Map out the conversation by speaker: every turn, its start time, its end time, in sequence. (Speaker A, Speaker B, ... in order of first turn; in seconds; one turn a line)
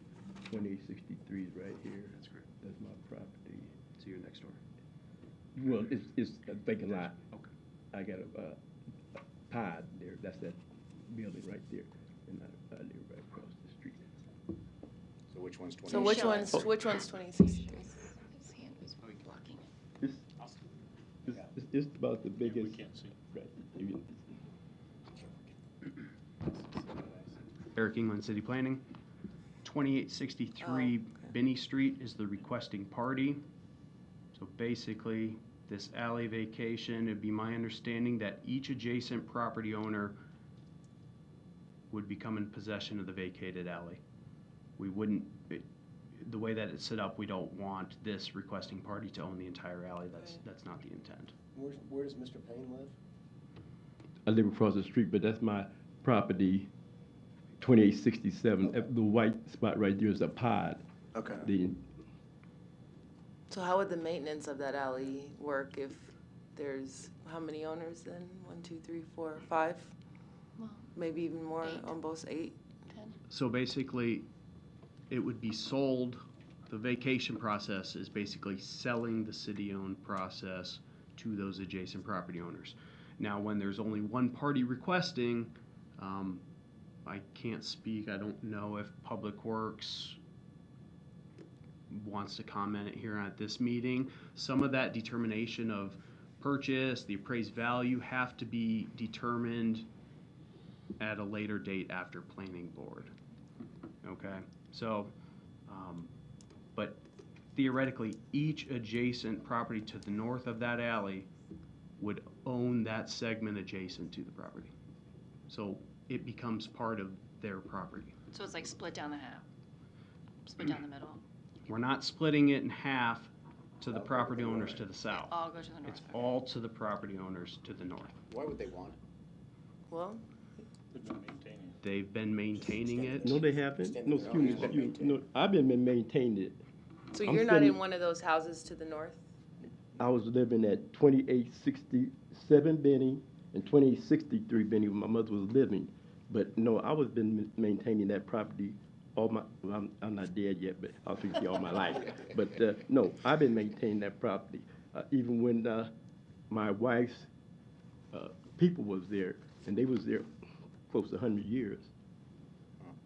Speaker A: 0.5-3.7
Speaker B: 2.1-2.4
Speaker B: 4.0-4.6
Speaker A: 5.5-7.2
Speaker B: 6.9-7.5
Speaker A: 7.9-8.6
Speaker A: 9.5-14.0
Speaker C: 15.3-16.4
Speaker D: 15.9-16.7
Speaker E: 15.9-17.8
Speaker D: 17.4-19.7
Speaker A: 20.0-20.2
Speaker A: 21.3-24.2
Speaker C: 22.4-23.1
Speaker F: 26.8-27.1
Speaker B: 27.7-28.8
Speaker B: 29.6-33.4
Speaker E: 30.6-30.9
Speaker B: 34.3-40.2
Speaker B: 41.9-44.0
Speaker B: 44.8-45.7
Speaker B: 46.2-51.3
Speaker F: 51.5-52.9
Speaker A: 54.2-56.7
Speaker A: 57.6-61.8
Speaker E: 63.5-69.9
Speaker D: 70.6-70.9
Speaker E: 70.9-72.6
Speaker D: 71.6-72.0
Speaker D: 72.9-73.2
Speaker B: 73.3-74.3
Speaker B: 75.1-86.4
Speaker B: 87.0-90.2
Speaker B: 91.9-99.9
Speaker B: 101.0-103.1
Speaker B: 104.0-105.1
Speaker B: 105.7-106.1
Speaker B: 106.8-107.0
Speaker B: 107.5-111.3
Speaker B: 112.0-114.7
Speaker B: 115.5-118.2
Speaker D: 118.3-119.4
Speaker D: 120.4-121.2
Speaker B: 121.7-128.2
Speaker C: 123.9-124.8
Speaker D: 125.0-126.3
Speaker C: 128.3-129.0
Speaker E: 129.9-130.2
Speaker C: 130.9-131.8
Speaker B: 131.8-133.4
Speaker F: 132.8-133.2
Speaker A: 133.2-136.6
Speaker F: 133.7-135.0
Speaker C: 134.2-135.1
Speaker E: 137.1-139.2
Speaker A: 137.2-137.8
Speaker A: 140.0-155.9
Speaker A: 156.5-157.3
Speaker A: 158.1-160.3
Speaker A: 160.9-161.9